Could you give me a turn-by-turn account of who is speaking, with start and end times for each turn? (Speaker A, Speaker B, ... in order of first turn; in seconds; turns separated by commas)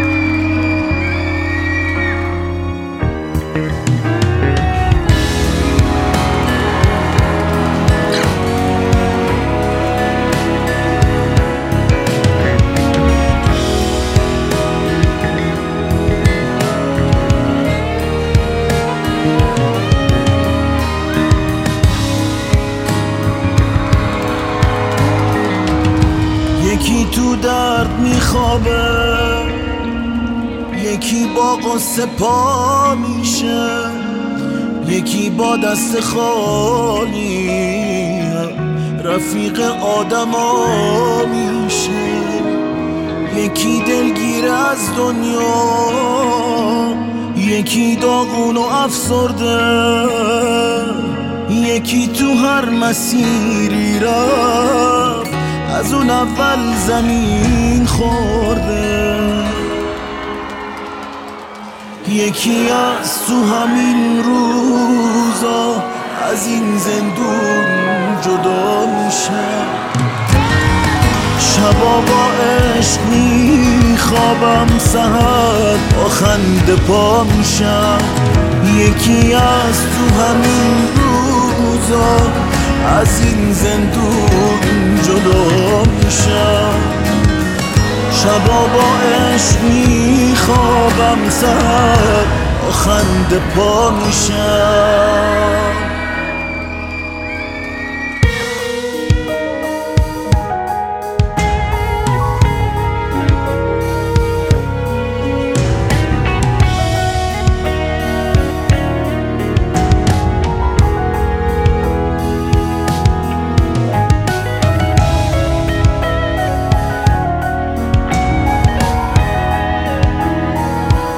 Speaker A: 26.6-29.9, Speaker A: 30.7-42.7, Speaker A: 43.2-59.8, Speaker A: 62.0-69.9, Speaker A: 71.3-87.3, Speaker A: 88.1-96.0